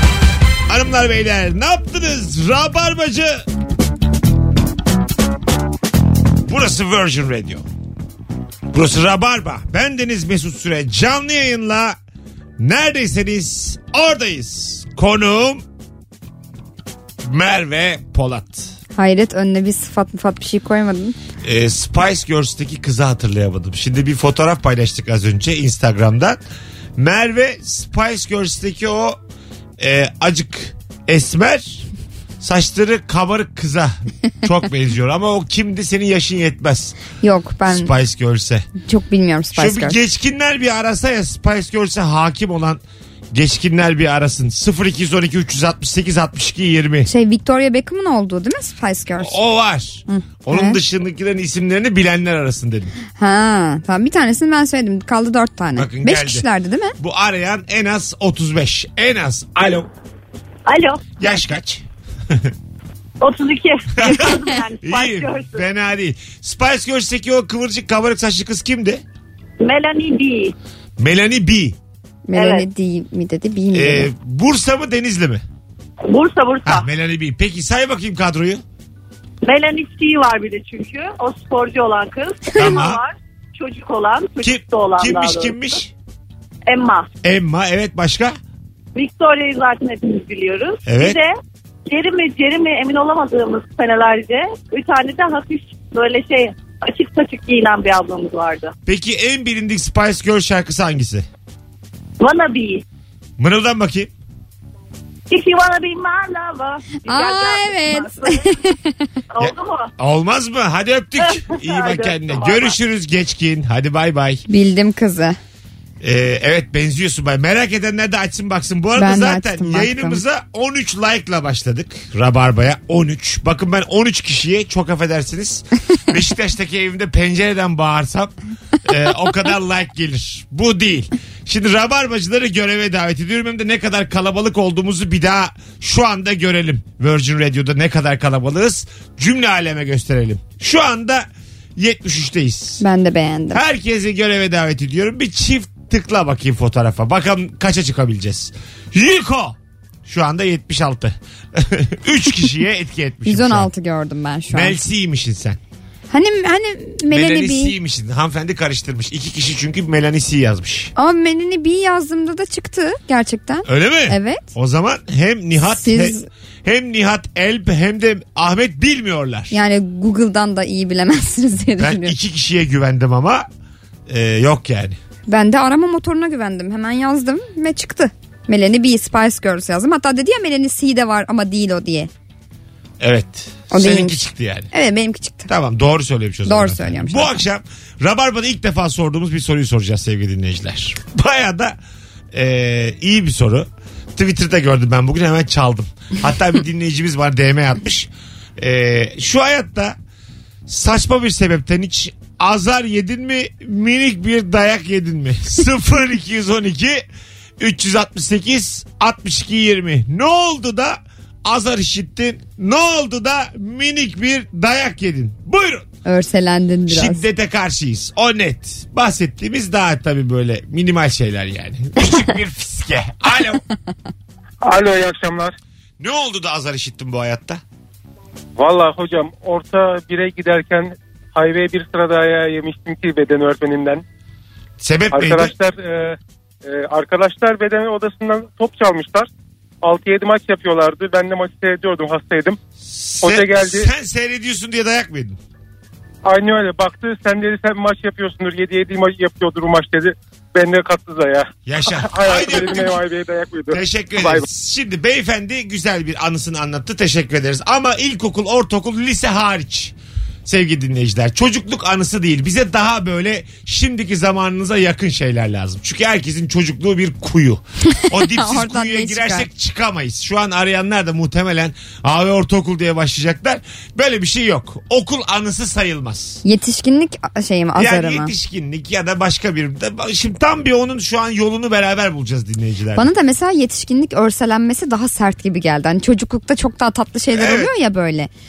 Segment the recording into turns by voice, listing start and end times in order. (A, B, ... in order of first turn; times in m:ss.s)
0:00.7-0:03.4 A
0:06.5-0:07.7 A
0:08.7-0:12.0 A
0:12.6-0:15.6 A
0:17.2-0:18.8 A
0:19.0-0:21.2 B
0:21.4-0:26.4 A
0:27.0-0:29.2 A
0:29.8-0:31.9 A
0:32.4-0:37.0 A
0:37.2-0:37.9 B
0:37.7-0:38.7 A
0:38.8-0:40.0 B
0:39.6-0:47.1 A
0:47.1-0:49.4 B
0:49.2-0:52.9 A
0:50.1-0:50.8 B
0:53.2-0:57.0 B
0:55.8-0:56.5 A
0:57.0-0:59.9 A
1:00.7-1:01.0 C
1:01.2-1:02.5 A
1:03.2-1:05.6 C
1:04.0-1:09.0 A
1:09.6-1:10.5 C
1:11.0-1:11.8 A
1:12.3-1:14.1 B
1:12.4-1:12.6 C
1:13.7-1:15.4 A
1:16.1-1:16.9 C
1:16.6-1:18.6 A
1:19.4-1:25.6 C
1:22.6-1:23.0 A
1:24.4-1:25.9 A
1:26.7-1:27.1 C
1:27.2-1:28.4 A
1:29.0-1:31.3 C
1:30.9-1:31.2 A
1:31.9-1:38.7 C
1:38.9-1:41.3 A
1:42.2-1:42.8 C
1:43.4-1:44.1 A
1:45.3-1:48.5 C
1:47.1-1:48.9 B
1:49.3-1:49.9 C
1:49.4-1:54.4 A
1:51.2-1:52.8 C
1:54.5-1:55.4 B
1:56.0-2:22.8 A
1:59.0-2:00.2 B
2:22.8-2:23.6 B
2:23.5-2:33.7 A
2:33.3-2:34.8 B
2:34.5-2:35.6 A
2:36.1-2:37.8 B
2:37.1-2:40.9 A
2:41.0-2:44.5 B
2:43.7-2:49.5 A
2:45.7-2:46.3 B
2:49.5-2:52.2 B
2:51.8-2:53.5 A
2:54.1-2:55.0 A
2:55.3-3:02.1 B
3:03.0-3:04.7 A
3:03.7-3:05.5 B
3:05.5-3:11.8 A
3:06.5-3:07.4 B
3:12.3-3:20.0 A
3:20.7-3:27.0 A
3:27.6-3:35.9 A
3:36.0-3:37.2 B
3:36.9-3:43.6 A
3:44.6-3:45.5 D
3:46.0-3:47.6 A
3:48.6-3:54.0 D
3:54.8-3:55.5 A
3:55.1-3:59.3 D
3:59.8-4:02.6 D
4:02.8-4:05.4 A
4:03.2-4:03.9 D
4:06.2-4:14.4 D
4:11.7-4:13.0 A
4:13.7-4:36.4 A
4:28.1-4:29.5 B
4:36.4-4:38.3 B
4:37.8-4:43.1 A
4:43.0-4:48.3 B
4:47.3-4:47.7 A